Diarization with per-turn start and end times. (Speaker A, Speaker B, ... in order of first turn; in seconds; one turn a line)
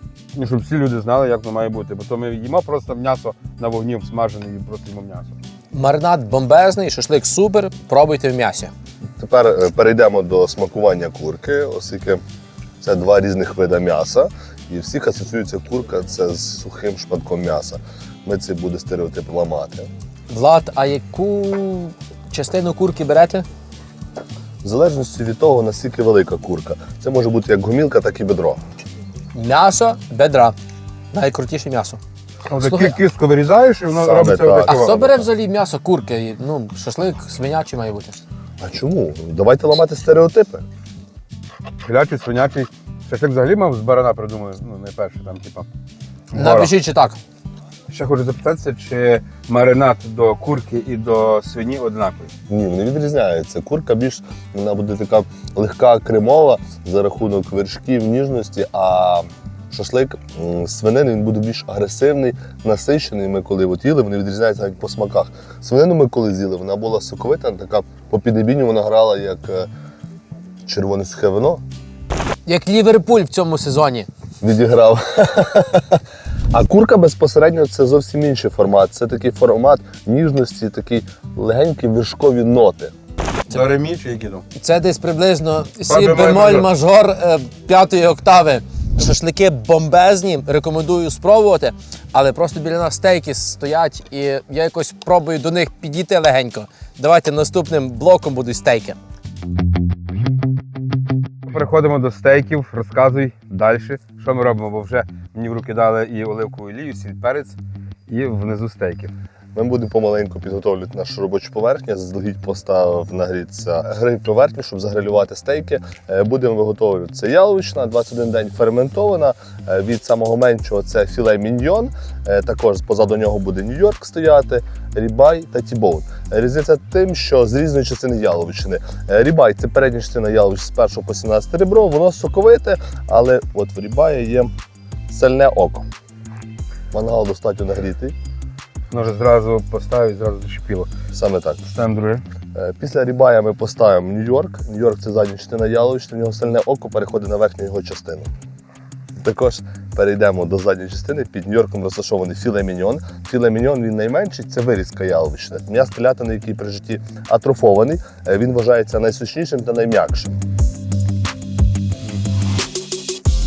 Speaker A: 0.3-5.3
Speaker B: 5.7-8.7
Speaker C: 9.2-12.2
Speaker C: 12.8-19.9
Speaker B: 20.3-23.4
Speaker C: 24.6-28.6
Speaker B: 29.3-30.6
Speaker B: 31.1-32.0
Speaker A: 32.5-35.0
Speaker B: 32.6-33.0
Speaker C: 34.0-35.2
Speaker B: 34.6-38.2
Speaker C: 38.6-40.7
Speaker A: 41.8-45.7
Speaker A: 46.3-46.7
Speaker B: 46.4-47.2
Speaker A: 47.9-52.3
Speaker C: 52.5-69.7
Speaker C: 70.7-71.6
Speaker B: 72.5-74.1
Speaker C: 74.4-82.9
Speaker A: 83.5-84.5
Speaker B: 84.6-99.0
Speaker A: 85.9-86.7
Speaker A: 101.5-107.6
Speaker A: 108.1-109.1
Speaker C: 109.5-134.5
Speaker C: 135.1-135.9
Speaker C: 136.9-138.2
Speaker A: 138.9-140.9
Speaker C: 141.1-141.6
Speaker A: 141.6-142.2
Speaker C: 142.5-148.3
Speaker C: 149.2-160.4